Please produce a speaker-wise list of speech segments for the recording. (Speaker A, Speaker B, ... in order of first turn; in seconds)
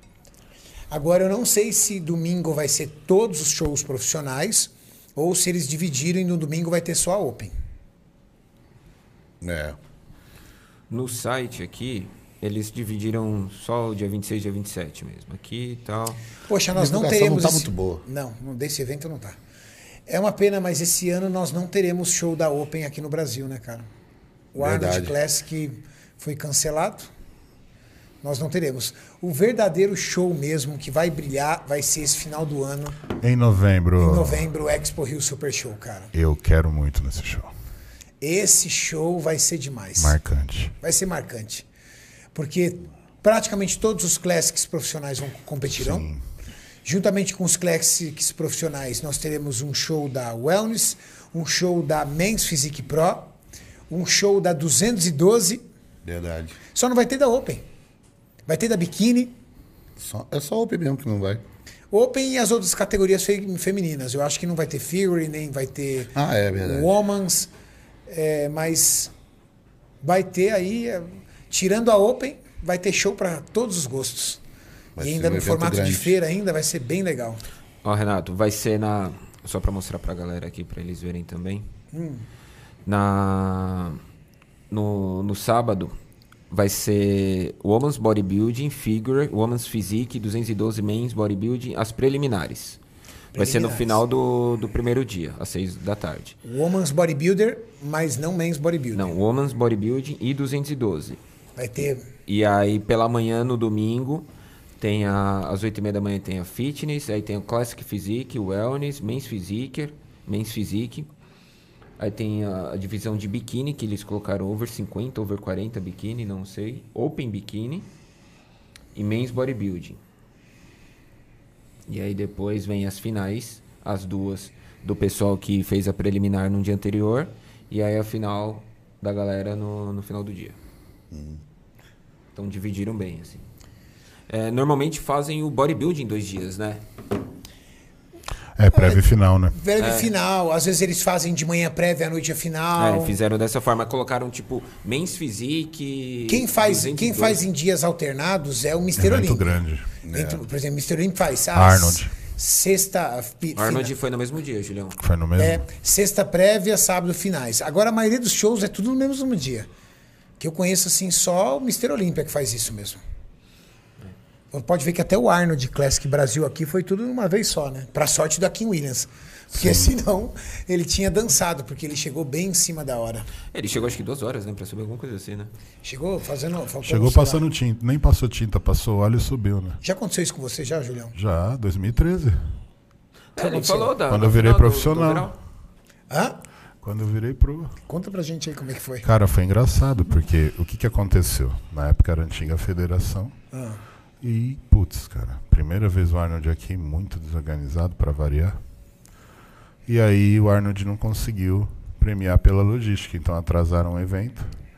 Speaker A: 0.9-7.5, 16.5-19.4, 20.1-23.9, 24.5-27.1, 28.2-33.0, 34.0-36.1, 38.2-40.2, 40.8-41.6, 42.3-46.1, 46.8-53.3, 53.9-55.6, 56.7-57.6, 58.5-59.4, 61.9-67.5, 68.1-69.1, 70.0-74.4, 75.0-77.4, 81.9-82.2, 93.3-94.0, 96.4-99.1, 101.6-102.1, 138.7-143.2, 146.3-149.5, 150.1-153.9, 155.4-159.7, 160.4-163.0, 164.5-173.3, 175.8-177.4, 179.8-181.1, 183.4-183.9, 186.1-186.4, 187.9-189.1, 193.5-193.8
Speaker B: 9.4-9.8, 16.7-18.0, 24.5-25.1, 56.0-56.6, 60.0-61.4, 66.1-67.0, 75.0-76.2, 131.1-131.4, 150.0-150.4
Speaker C: 10.9-16.2, 77.8-81.7, 82.8-84.0, 84.7-86.0, 86.5-92.8, 93.3-96.4, 98.9-101.2, 102.3-111.1, 112.0-117.9, 118.9-120.0, 121.9-130.6, 132.3-133.4, 134.3-136.8, 139.8-140.1, 142.8-147.4, 153.6-155.0, 173.5-175.5, 183.3-185.3
Speaker D: 33.2-34.5, 36.1-37.5, 40.0-40.7, 45.7-46.2, 138.6-139.6, 149.0-149.9, 151.5-152.1, 155.0-155.6, 169.5-169.9, 176.8-179.8, 181.1-182.4, 184.1-185.3, 186.8-187.7, 189.0-193.3, 194.2-198.6, 199.8-204.5